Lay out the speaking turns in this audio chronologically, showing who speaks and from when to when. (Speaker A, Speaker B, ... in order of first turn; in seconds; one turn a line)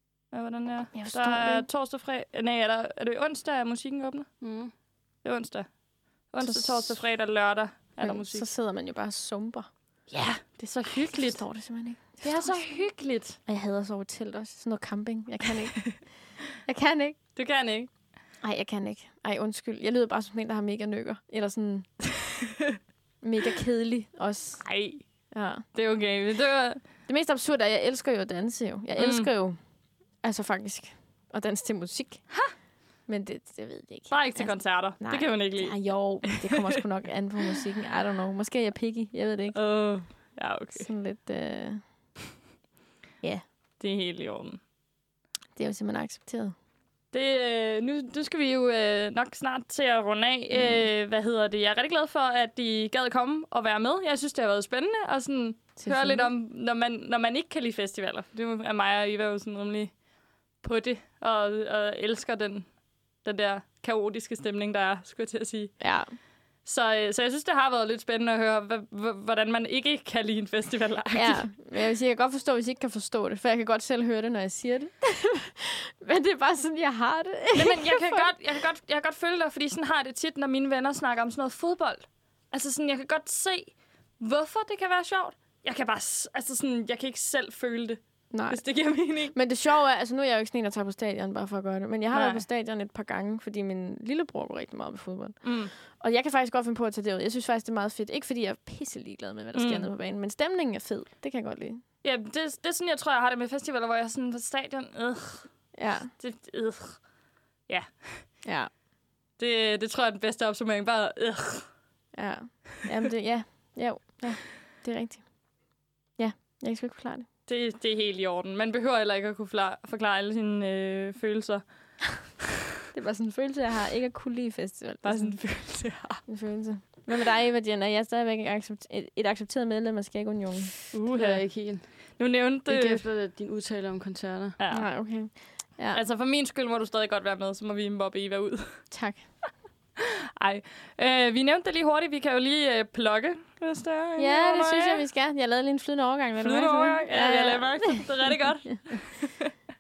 Speaker A: 0.3-8.5
Speaker B: 0.9-1.7
Speaker C: 4.4-4.7
Speaker B: 6.4-10.1
Speaker A: 10.1-13.4
Speaker B: 10.9-17.4
Speaker A: 17.4-17.9
Speaker B: 18.4-22.3
Speaker B: 23.2-25.7
Speaker A: 24.6-26.8
Speaker B: 27.1-41.9
Speaker A: 29.0-29.3
Speaker A: 34.1-36.4
Speaker A: 39.5-40.9
Speaker A: 43.8-44.6
Speaker B: 45.5-46.5
Speaker A: 47.1-71.5
Speaker B: 50.5-50.9
Speaker B: 55.8-56.3
Speaker B: 65.8-66.2
Speaker B: 71.1-78.3
Speaker A: 77.5-89.4
Speaker B: 88.3-101.8
Speaker A: 92.1-92.4
Speaker A: 95.4-95.7
Speaker A: 99.5-99.9
Speaker A: 102.0-107.1
Speaker B: 105.8-106.1
Speaker A: 107.7-108.4
Speaker B: 108.5-108.7
Speaker A: 109.4-111.8
Speaker B: 112.1-117.3
Speaker A: 117.5-122.3
Speaker B: 122.9-130.8
Speaker A: 125.0-126.4
Speaker C: 130.9-131.9
Speaker A: 131.1-133.0
Speaker C: 132.7-134.6
Speaker A: 134.6-134.9
Speaker B: 134.7-136.0
Speaker A: 135.9-139.2
Speaker B: 138.9-139.4
Speaker A: 140.4-145.0
Speaker B: 144.2-148.5
Speaker A: 146.4-149.4